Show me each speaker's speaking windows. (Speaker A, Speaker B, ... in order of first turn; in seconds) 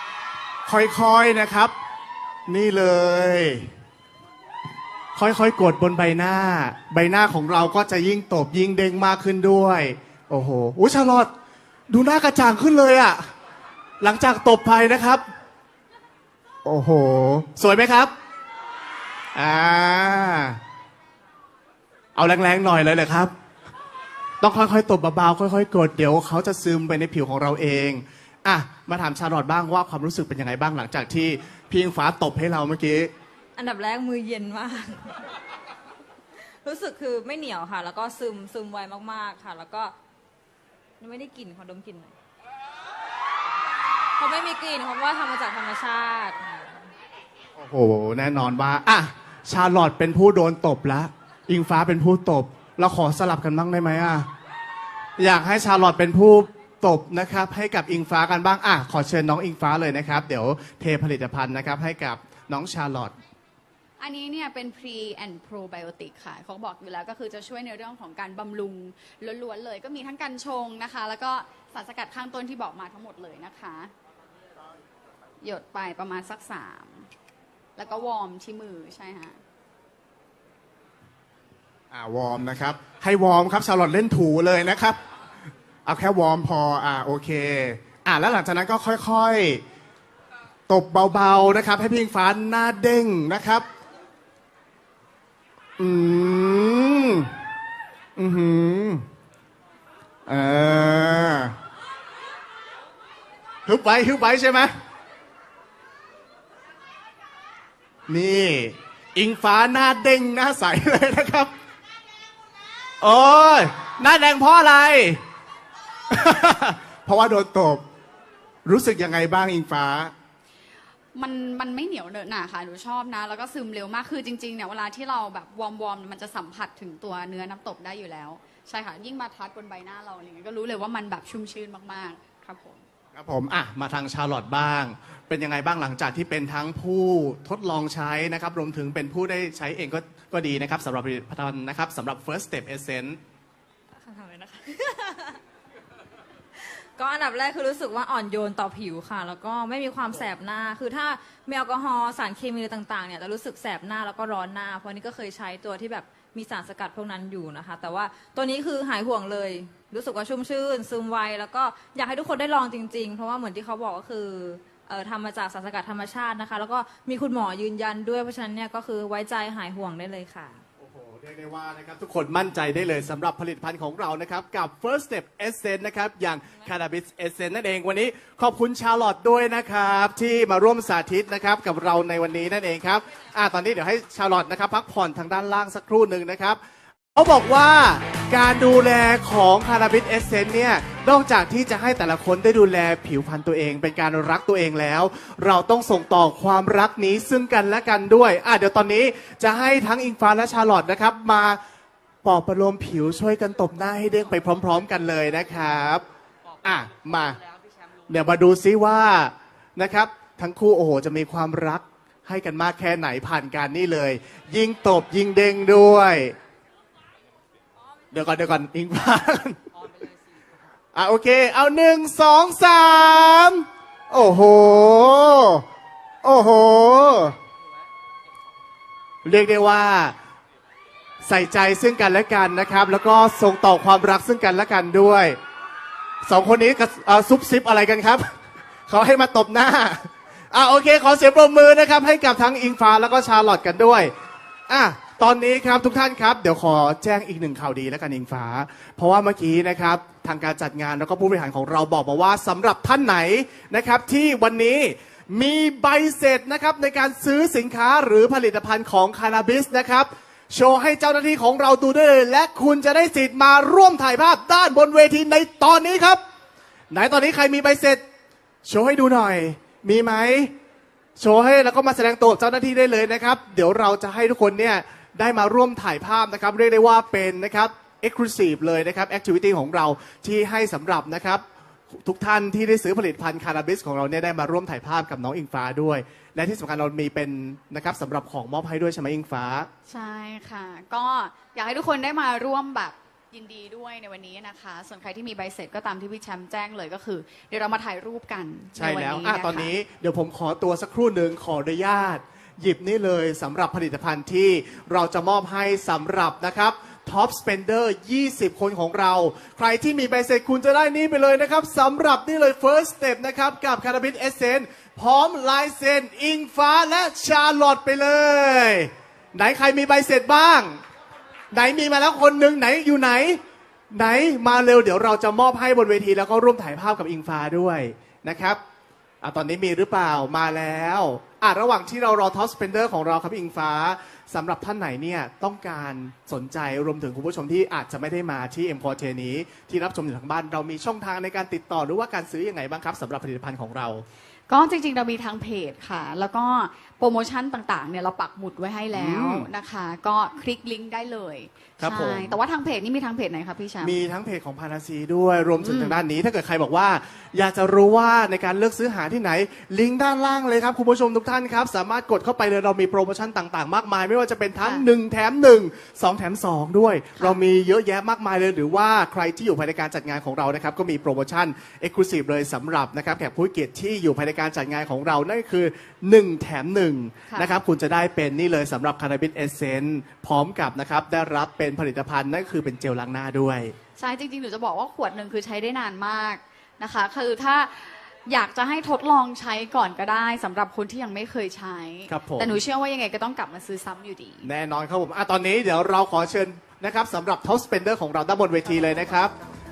Speaker A: 0.7-1.7, 2.5-3.7, 5.2-11.3, 11.9-13.3, 14.0-15.2, 16.6-18.1, 19.3-20.6, 22.2-23.3, 24.4-33.1, 47.6-54.3, 55.2-63.1, 81.9-85.0, 85.8-89.6, 90.7-93.7, 95.8-97.3, 98.2-99.1, 100.3-101.6, 103.7-104.7, 108.1-111.5, 113.0-115.2, 116.1-117.8, 118.7-120.1, 133.1-143.2, 170.8-186.6, 187.1-201.6, 202.2-206.0, 206.6-207.4, 208.1-216.3, 218.1-219.6, 220.9-225.6, 226.2-227.4, 229.2-230.2, 231.2-235.4, 236.2-238.2, 238.9-244.1, 244.7-266.2, 266.9-268.0, 268.6-270.5, 271.2-289.7, 298.7-320.8, 321.5-328.6, 329.2-344.1, 348.9-349.5, 351.8-352.4, 353.8-383.8, 392.1-392.6, 394.4-399.3
Speaker B: 33.6-35.3, 36.6-39.9, 41.0-42.1, 44.2-46.9, 143.9-145.4, 146.6-170.6
Speaker C: 64.0-73.9, 75.4-77.1, 77.8-79.4, 121.2-132.8, 289.9-299.7, 344.5-354.0, 355.6-356.0, 364.6-364.9, 377.3-377.6, 384.0-394.5